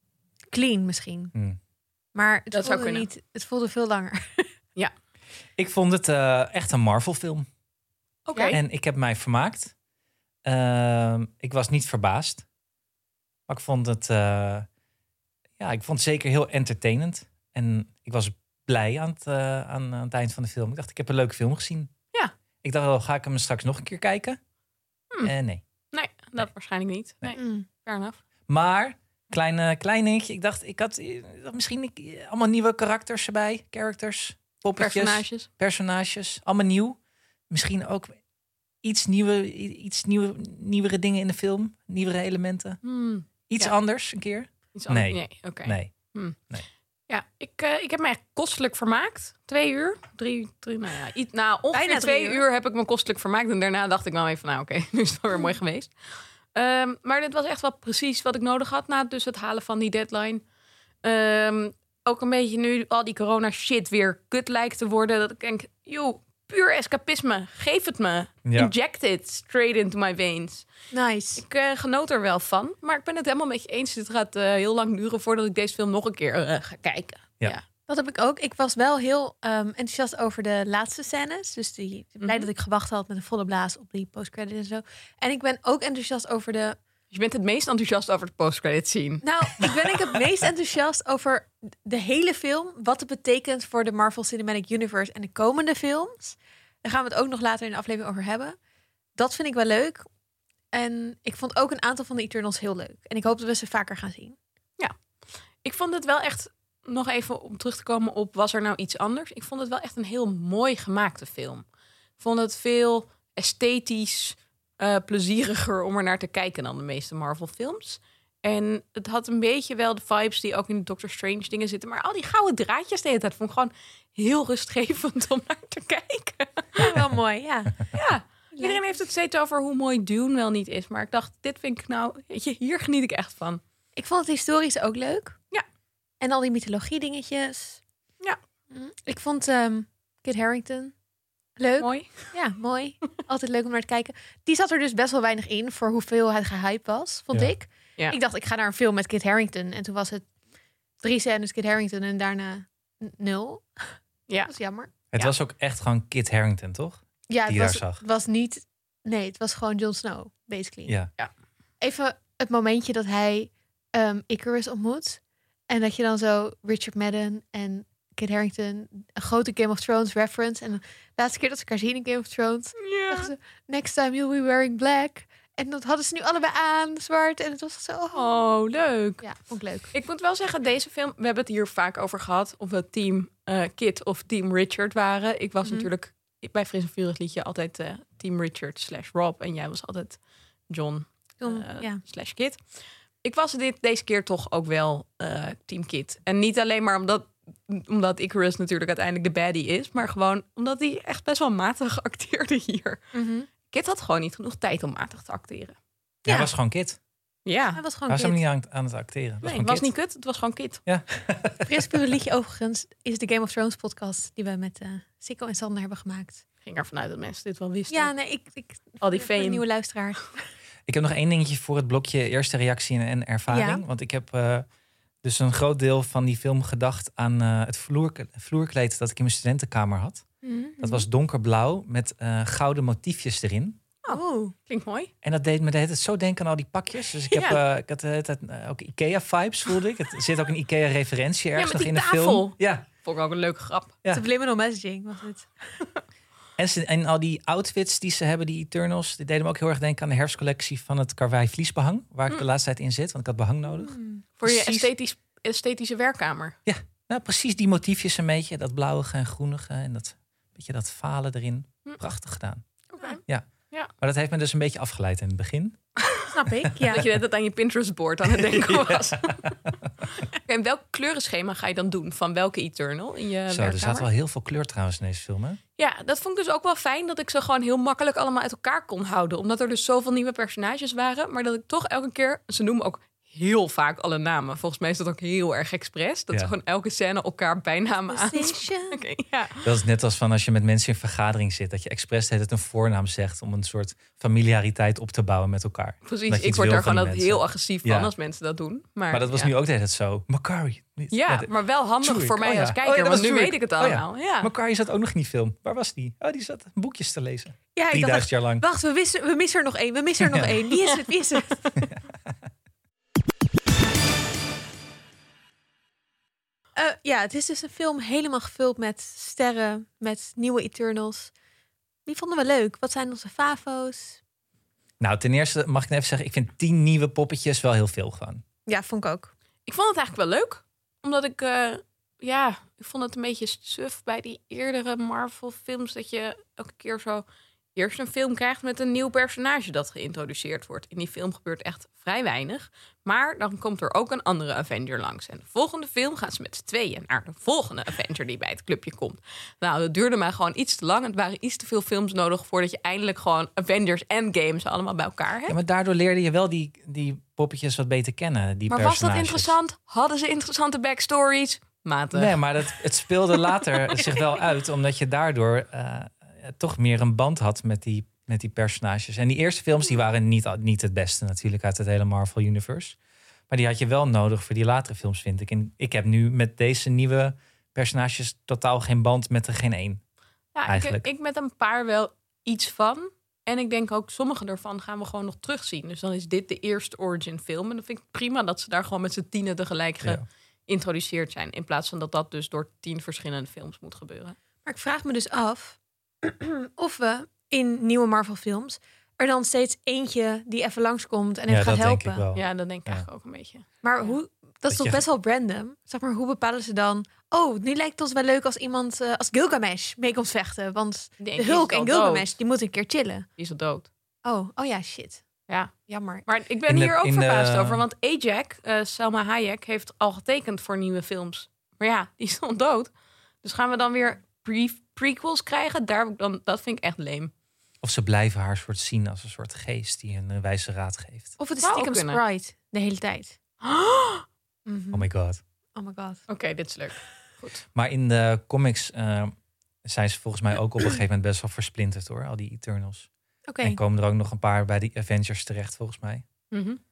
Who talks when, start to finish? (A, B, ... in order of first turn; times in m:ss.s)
0:00.5-0:01.3 A
0:02.2-0:04.5 A
0:02.5-0:03.1 B
0:05.6-0:07.5 C
0:08.3-0:08.6 B
0:08.5-0:09.7 C
0:10.4-0:12.5 C
0:13.5-0:14.7 C
0:15.6-0:21.9 C
0:22.6-0:24.4 C
0:25.2-0:25.6 C
0:25.9-0:28.2 B
0:27.3-0:27.7 A
0:28.5-0:37.0 C
0:34.8-0:35.5 B
0:37.5-0:38.2 C
0:38.8-0:42.8 C
0:42.8-0:43.7 B
0:43.5-0:45.9 C
0:44.8-0:46.4 B
0:47.1-0:55.9 B
0:51.7-0:52.4 A
0:56.5-1:00.4 B
1:01.0-1:10.7 B
1:08.4-1:08.7 C
1:10.9-1:11.4 A
1:11.4-1:17.6 B
1:17.9-1:26.8 A
1:22.2-1:22.5 B
1:27.1-1:29.9 B
1:29.2-1:38.6 A
1:39.2-1:40.0 A
1:40.7-1:44.4 A
1:45.6-1:51.6 B
1:52.2-2:06.9 B
2:06.8-2:07.9 A
2:07.9-2:13.6 B
2:08.5-2:08.8 A
2:14.0-2:15.4 A
2:16.2-2:17.8 A
2:18.7-2:20.9 A
2:21.6-2:30.3 A
2:21.8-2:22.3 B
2:31.0-2:33.9 A
2:34.5-2:34.9 A
2:35.1-2:38.0 C
2:37.3-2:41.0 A
2:41.8-2:58.4 A
2:52.8-2:53.3 B
2:58.2-2:59.2 B
2:59.2-2:59.9 A
2:59.9-3:10.2 B
3:10.7-3:12.6 B
3:11.4-3:12.0 A
3:13.2-3:23.0 B
3:23.1-3:23.5 A
3:23.6-3:25.8 B
3:26.2-3:26.5 A
3:26.3-3:27.0 C
3:27.5-3:27.8 B
3:27.7-3:28.4 A
3:28.1-3:29.9 C
3:29.4-3:30.8 B
3:30.9-3:31.9 C
3:31.6-3:36.4 A
3:36.6-3:38.1 B
3:37.9-3:40.4 A
3:39.0-3:39.6 B
3:40.9-3:44.7 C
3:43.5-3:43.8 A
3:45.2-3:50.2 C
3:50.4-3:51.1 A
3:50.8-3:53.8 C
3:54.0-3:55.1 B
3:54.1-3:54.5 A
3:55.2-4:02.9 C
3:57.3-3:57.6 B
4:01.6-4:04.0 B
4:04.1-4:05.8 A
4:06.6-4:14.9 C
4:13.7-4:14.2 A
4:14.4-4:16.6 B
4:16.7-4:22.6 C
4:22.9-4:23.9 B
4:24.0-4:25.8 C
4:26.0-4:26.3 B
4:26.3-4:27.1 A
4:26.9-4:34.1 B
4:28.2-4:29.9 C
4:33.5-4:35.6 C
4:35.8-4:49.7 B
4:48.1-4:49.0 A
4:49.6-4:58.1 C
4:56.0-4:59.5 B
4:59.1-5:01.5 C
5:01.1-5:04.5 B
5:02.0-5:08.6 C
5:07.8-5:11.7 A
5:10.2-5:10.5 C
5:16.8-5:21.3 A
5:22.1-5:24.2 A
5:25.0-5:28.4 C
5:28.7-5:29.3 A
5:29.7-5:55.6 B
5:55.5-5:59.6 C
5:58.7-6:02.4 B
6:02.1-6:13.0 C
6:13.5-6:20.0 C
6:20.6-6:34.4 B
6:20.7-6:21.1 C
6:34.6-6:42.2 A
6:41.5-6:43.1 C
6:42.3-6:44.1 B
6:43.8-6:53.3 A
6:44.7-6:45.0 C
6:51.2-6:52.3 B
6:53.4-6:53.9 B
6:54.2-6:55.2 A
6:55.9-6:56.3 A
6:56.3-7:02.9 B
6:56.7-6:57.8 C
7:03.4-7:07.3 B
7:07.8-7:11.3 C
7:11.4-7:13.4 A
7:11.6-7:12.2 B
7:13.6-7:14.2 B
7:14.7-7:15.1 A
7:14.9-7:15.4 C
7:15.8-7:16.2 A
7:16.3-7:17.6 B
7:17.8-7:23.1 C
7:23.5-7:23.8 A
7:23.6-7:26.2 C
7:26.5-7:26.8 B